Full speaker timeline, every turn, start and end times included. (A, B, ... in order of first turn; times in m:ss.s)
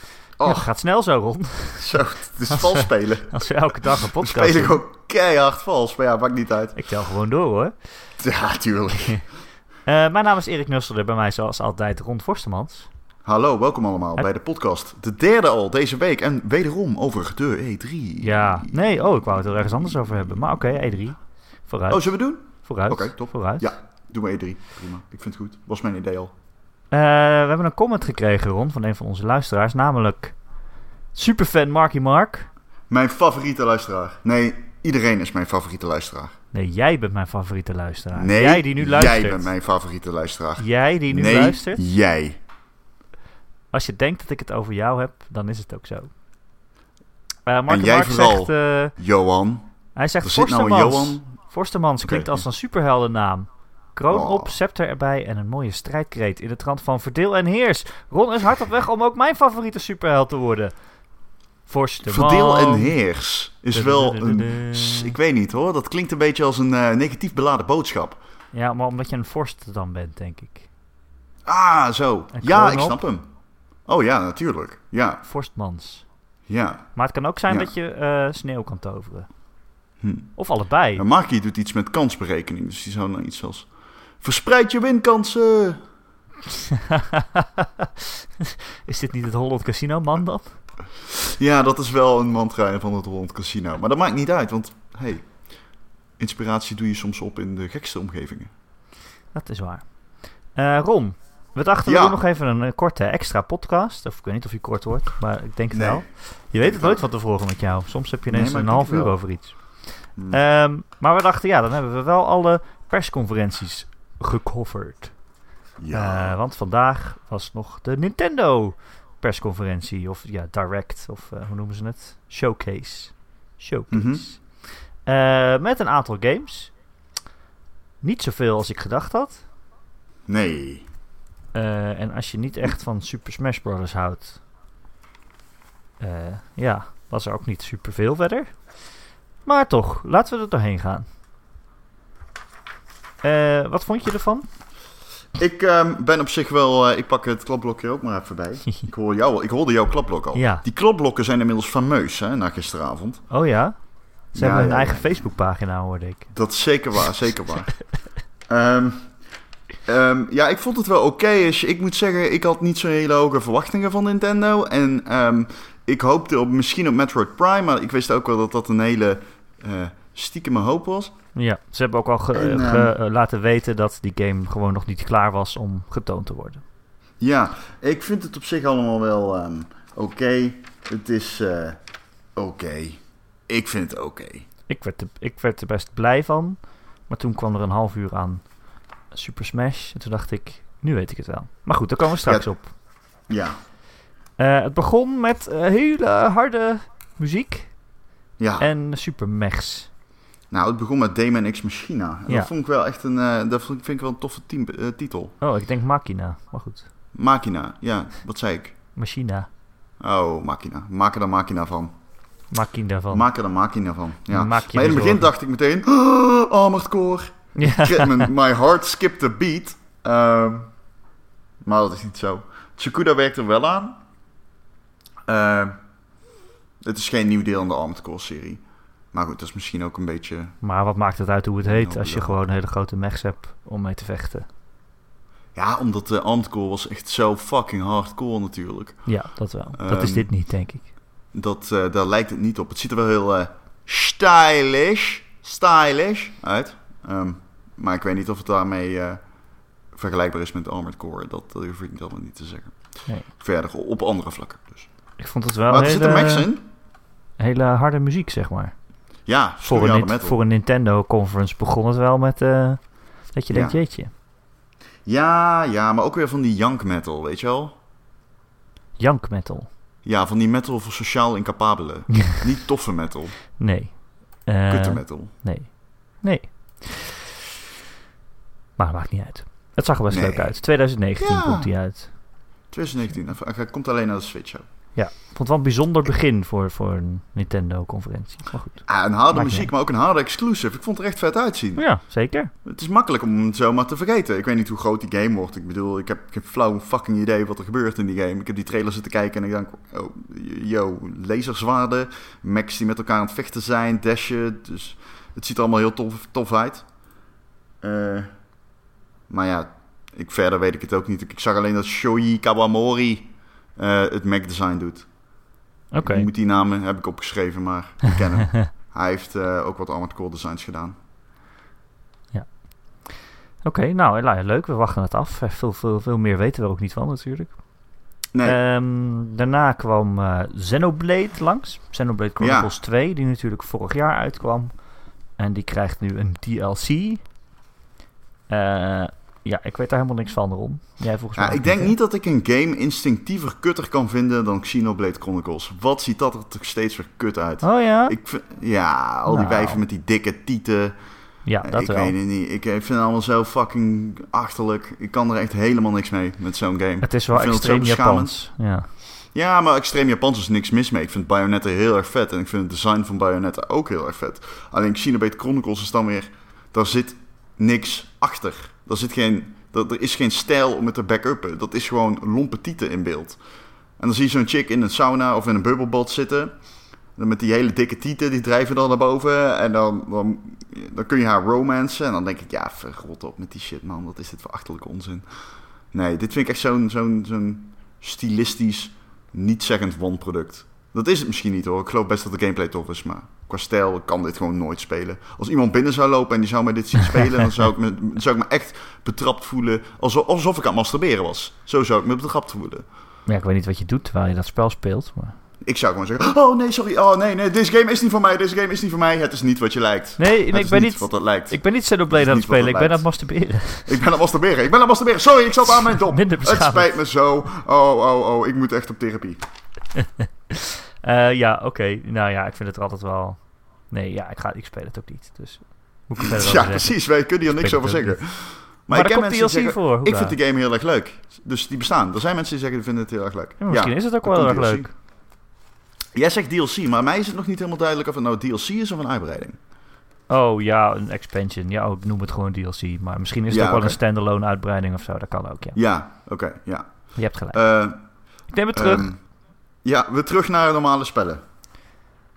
0:00.4-0:00.7 A
0:00.4-0:04.8 B
0:01.8-0:03.4 A
0:03.9-0:06.8 A
0:06.8-0:07.7 B
0:08.2-0:09.2 A
0:09.8-0:12.9 B
0:13.2-0:18.9 A
0:18.2-0:23.7 B
0:21.9-0:26.3 A
0:26.9-0:30.4 B
0:31.1-0:32.5 B
0:32.9-0:36.3 A
0:36.5-0:39.5 B
0:38.1-0:42.4 A
0:40.6-0:41.8 B
0:43.7-0:46.1 B
0:47.4-0:48.9 B
0:47.7-0:49.7 A
0:50.0-1:00.7 B
0:50.2-0:51.3 A
0:52.0-0:52.4 A
0:54.1-0:54.5 A
1:01.7-1:03.0 B
1:02.0-1:08.2 A
1:03.7-1:05.1 B
1:08.5-1:10.7 B
1:11.4-1:13.3 A
1:12.3-1:13.0 B
1:13.9-1:15.2 A
1:15.2-1:16.0 B
1:16.5-1:16.9 A
1:16.9-1:19.3 B
1:20.0-1:20.3 A
1:20.4-1:21.0 B
1:20.9-1:23.7 A
1:24.2-1:25.8 A
1:26.6-1:30.5 B
1:31.0-1:35.3 A
1:36.2-1:38.5 A
1:39.3-1:39.8 B
1:40.5-1:49.6 B
1:41.8-1:42.2 A
1:45.7-1:46.0 A
1:46.6-1:47.0 A
1:48.3-1:49.2 A
1:50.3-1:55.1 B
1:55.8-1:56.4 A
1:55.9-2:04.4 B
2:03.9-2:04.2 A
2:05.0-2:06.7 B
2:08.0-2:09.4 B
2:10.3-2:10.8 A
2:11.5-2:14.4 B
2:16.0-2:18.5 B
2:19.4-2:21.0 B
2:23.2-2:24.5 B
2:25.4-2:33.2 A
2:30.3-2:30.6 B
2:33.3-2:33.7 B
2:34.3-2:36.3 B
2:34.3-2:35.2 A
2:36.3-2:37.7 A
2:38.5-2:39.1 A
2:39.8-2:51.1 A
2:51.3-2:56.6 B
2:52.3-2:52.9 A
2:57.2-3:01.8 A
3:02.4-3:04.4 A
3:04.7-3:08.4 B
3:09.1-3:12.7 B
3:13.3-3:13.6 A
3:14.4-3:17.7 B
3:18.4-3:18.6 A
3:18.6-3:19.9 B
3:20.5-3:25.3 A
3:25.4-3:26.9 B
3:27.1-3:28.7 A
3:29.0-3:29.5 B
3:30.0-3:31.9 A
3:32.5-3:33.3 B
3:33.1-3:40.7 A
3:34.3-3:35.3 B
3:37.6-3:38.3 B
3:41.6-3:44.0 A
3:45.3-3:45.7 A
3:46.8-3:48.6 A
3:49.1-3:50.5 A
3:50.6-3:54.5 B
3:51.6-3:52.4 A
3:55.5-3:59.0 A
3:59.0-4:00.9 B
3:59.8-4:00.3 A
4:01.3-4:09.2 A
4:09.9-4:12.7 A
4:13.4-4:14.9 A
4:15.2-4:16.5 B
4:15.7-4:16.6 A
4:17.4-4:18.7 B
4:19.2-4:20.4 A
4:19.6-4:22.8 B
4:23.3-4:24.1 B
4:23.5-4:23.8 A
4:25.0-4:27.7 A
4:29.0-4:29.7 B
4:30.0-4:33.3 A
4:33.6-4:37.2 B
4:34.7-4:35.3 A
4:38.8-4:42.1 B
4:40.1-4:40.6 A
4:41.2-4:41.7 A
4:42.7-4:44.6 A
4:44.9-4:49.7 B
4:48.9-4:51.8 A
4:51.8-4:52.5 B
4:52.6-5:06.8 A
5:07.8-5:08.3 A
5:09.3-5:15.1 A
5:15.9-5:16.3 B
5:16.0-5:21.0 A
5:18.4-5:18.7 B
5:23.6-5:27.6 B
5:28.4-5:34.7 B
5:32.4-5:32.7 A
5:35.4-5:37.2 B
5:38.5-5:41.9 B
5:41.4-5:50.9 A
5:47.6-5:48.1 B
5:49.3-5:49.8 B
5:51.4-5:52.1 B
5:51.6-5:58.3 A
5:57.0-5:58.9 B
5:59.3-6:13.4 A
6:14.0-6:16.5 A
6:17.2-6:25.2 A
6:25.9-6:42.8 A
6:43.3-6:45.4 B
6:45.6-6:53.0 A
6:50.2-6:54.0 B
6:53.8-6:59.4 A
6:56.1-6:56.9 B
7:00.0-7:03.4 B
7:03.9-7:08.2 B
7:06.2-7:14.9 A
7:08.9-7:10.4 B
7:13.6-7:14.9 B
7:16.1-7:19.6 A
7:20.3-7:25.8 B
7:23.5-7:24.0 A
7:25.7-7:26.9 A
7:27.1-7:27.6 B
7:27.5-7:28.0 A
7:28.5-7:29.1 B
7:28.7-7:29.2 A
7:29.8-7:31.4 A